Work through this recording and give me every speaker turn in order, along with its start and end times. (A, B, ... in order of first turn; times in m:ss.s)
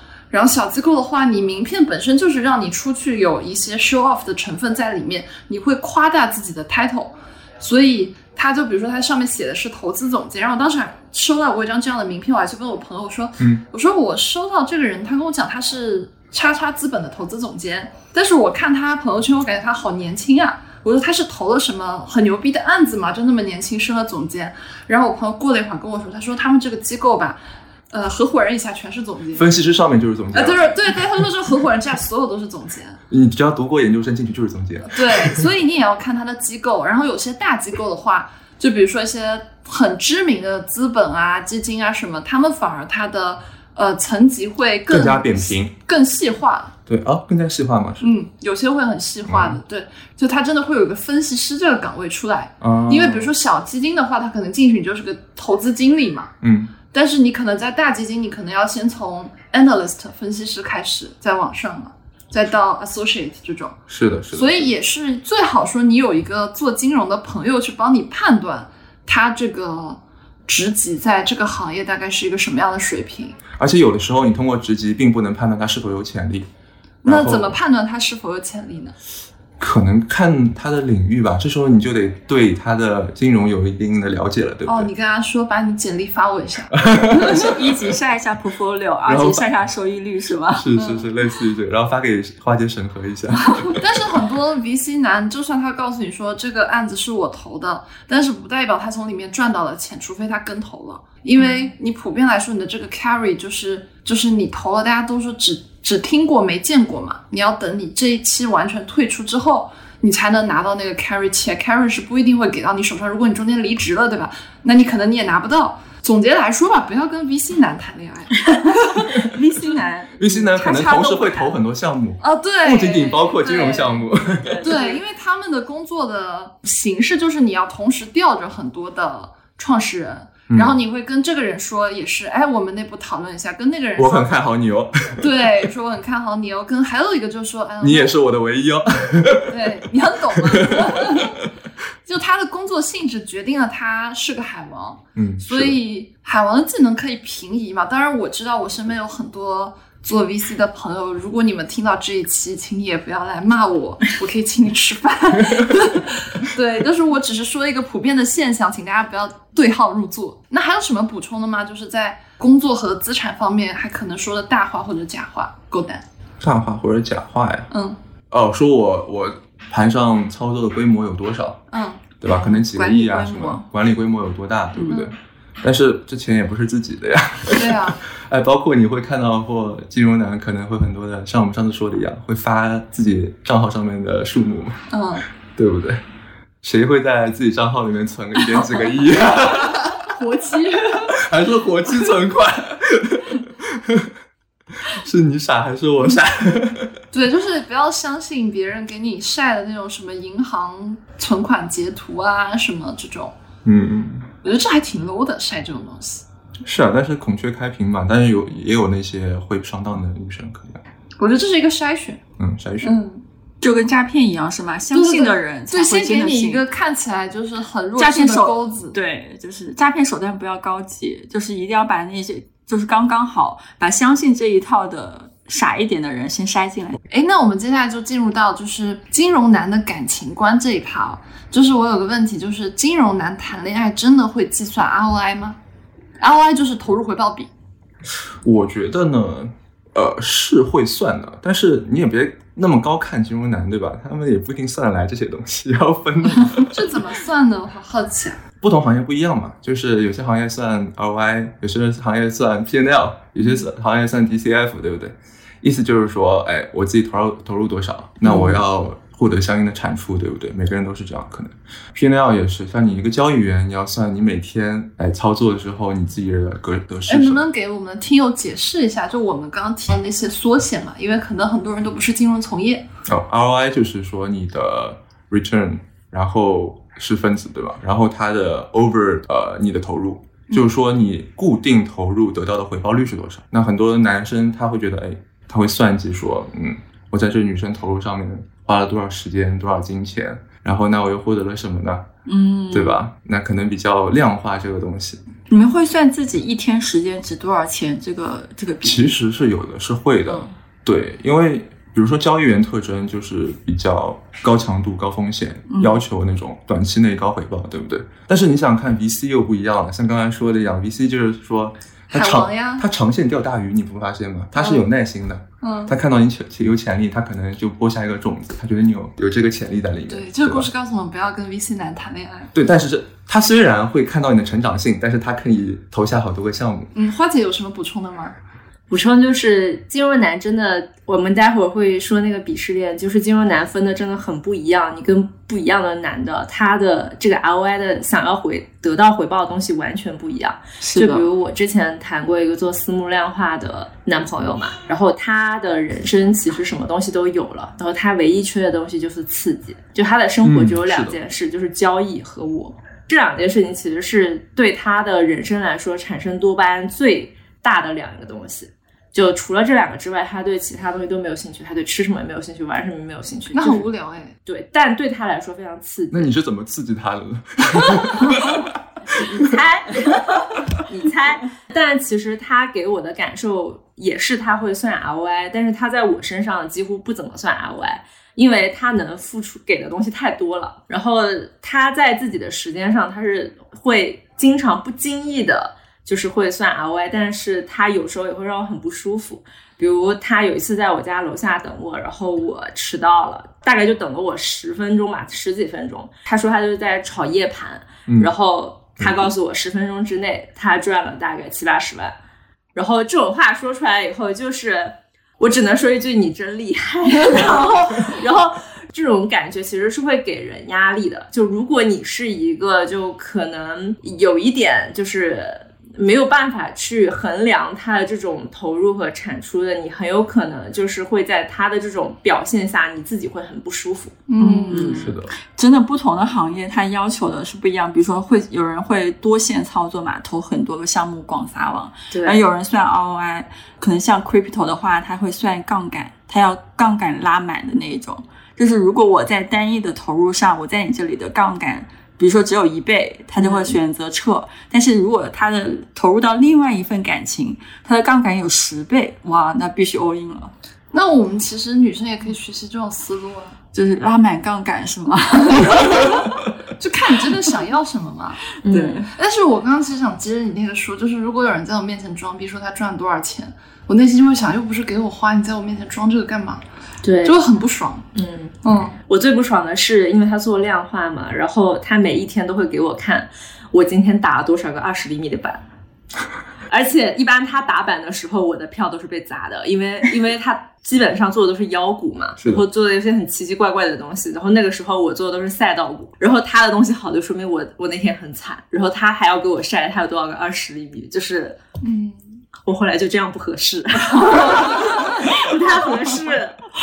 0:00.3-0:29.5 A
0:29.3-0:30.8 B
0:30.3-0:33.0 A
0:33.1-0:35.4 B
0:34.9-0:46.8 A
0:44.9-0:45.8 B
0:46.9-0:48.1 B
0:48.0-0:56.3 A
0:49.3-0:49.6 B
0:52.6-0:53.3 B
0:56.4-0:56.7 B
0:56.9-1:03.8 A
1:03.9-1:04.7 B
1:04.3-1:13.4 A
1:13.6-1:16.5 B
1:17.0-1:17.6 B
1:17.0-1:19.0 A
1:19.6-1:24.9 B
1:24.7-1:27.5 A
1:26.8-1:27.5 B
1:27.2-1:30.7 C
1:29.0-1:29.5 B
1:30.5-1:33.8 B
1:30.8-1:31.1 A
1:33.8-1:59.2 A
1:41.4-1:41.7 C
1:58.8-2:01.6 C
2:00.2-2:04.8 B
2:02.2-2:04.1 A
2:04.4-2:05.0 C
2:04.6-2:14.3 A
2:10.5-2:10.8 B
2:14.0-2:15.5 B
2:15.2-2:18.2 A
2:17.8-2:19.7 B
2:19.5-2:21.4 A
2:20.4-2:21.4 B
2:22.1-2:46.0 A
2:25.2-2:25.8 B
2:46.4-2:47.7 B
2:47.7-2:48.0 A
2:48.3-2:51.6 B
2:51.7-2:52.0 A
2:52.2-3:04.8 B
2:52.2-2:53.7 C
2:54.8-2:55.0 C
2:57.5-2:58.0 A
3:04.9-3:05.2 A
3:05.6-3:06.0 B
3:06.6-3:10.1 B
3:09.9-3:11.2 A
3:11.0-3:14.1 B
3:14.8-3:17.0 B
3:17.1-3:23.4 A
3:23.6-3:24.3 B
3:24.4-3:26.2 A
3:26.6-3:30.8 B
3:31.2-3:32.2 A
3:32.4-3:33.0 B
3:32.8-3:33.2 A
3:33.6-3:36.6 C
3:34.9-3:39.0 A
3:38.0-3:47.0 C
3:47.1-3:55.6 A
3:56.2-3:57.5 A
3:58.4-4:06.9 B
4:06.7-4:08.4 A
4:08.6-4:27.5 B
4:18.2-4:18.6 C
4:27.1-4:32.9 A
4:33.1-4:52.1 B
4:52.3-4:53.0 C
4:52.7-4:55.2 B
4:55.5-4:59.1 C
4:58.8-5:20.7 B
5:00.3-5:00.5 C
5:05.7-5:06.0 C
5:12.1-5:12.8 A
5:14.6-5:14.9 A
5:15.6-5:16.0 A
5:20.1-5:22.5 A
5:22.5-5:26.9 B
5:27.0-5:28.4 A
5:28.9-6:03.9 D
5:40.8-5:41.3 C
5:50.4-5:51.2 B
6:03.5-6:04.4 A
6:04.5-6:06.3 D
6:06.1-6:09.5 B
6:09.2-6:10.3 D
6:10.8-6:42.1 D
6:39.0-6:39.3 B
6:42.8-7:04.2 D
7:04.3-7:05.0 A
7:04.4-7:30.5 C
7:04.8-7:05.3 B
7:12.1-7:12.4 D
7:30.9-7:33.6 A
7:33.7-7:36.4 C
7:35.7-7:36.0 A
7:36.8-7:38.4 A
7:38.6-7:39.0 D
7:38.7-7:39.2 C
7:39.2-7:46.6 A
7:47.0-7:47.4 D
7:47.2-7:48.1 A
7:48.1-7:55.6 D
7:48.6-7:49.0 A
7:56.7-8:11.6 D
8:11.8-8:12.4 A
8:12.6-8:16.6 D